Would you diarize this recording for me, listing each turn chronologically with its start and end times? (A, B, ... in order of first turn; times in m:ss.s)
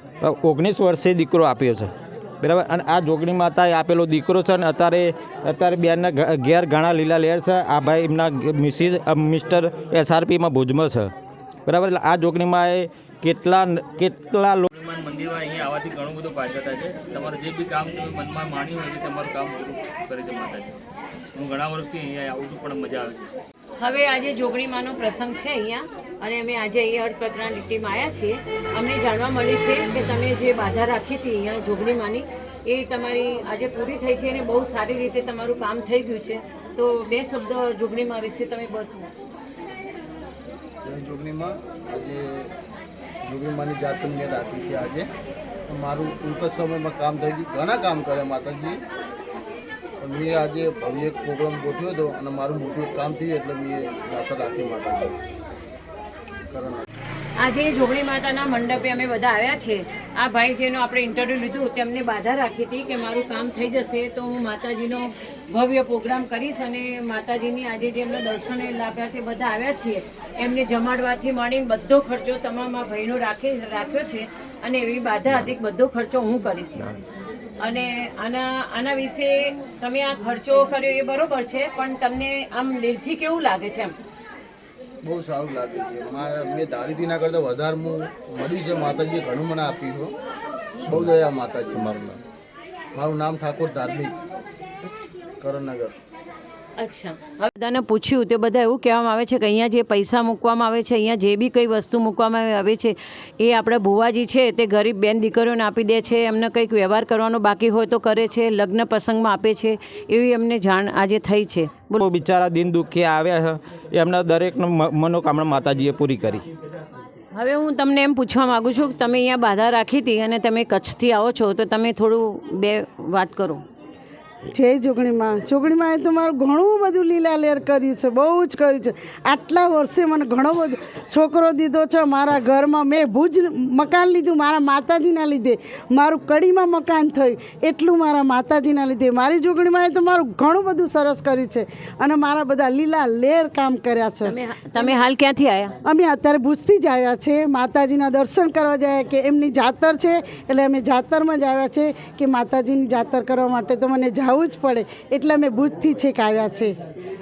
0:00.2-0:11.1 A
0:11.7-0:14.7 A
0:14.7-0:20.8 B
0:21.3-0:23.3 B
0:23.8-0:39.1 C
0:40.8-0:42.5 D
0:43.2-0:45.1 D
0:45.7-0:48.8 D
0:50.0-0:55.2 D
0:56.5-0:56.8 D
0:57.4-1:16.9 C
1:17.6-1:23.9 C
1:25.0-1:30.1 D
1:30.9-1:32.0 D
1:32.9-1:34.2 D
1:35.4-1:35.9 D
1:36.8-1:52.0 C
1:52.0-1:56.4 A
1:57.3-2:03.6 C
2:04.5-2:24.9 E
2:24.2-2:25.8 C
2:25.8-2:36.7 E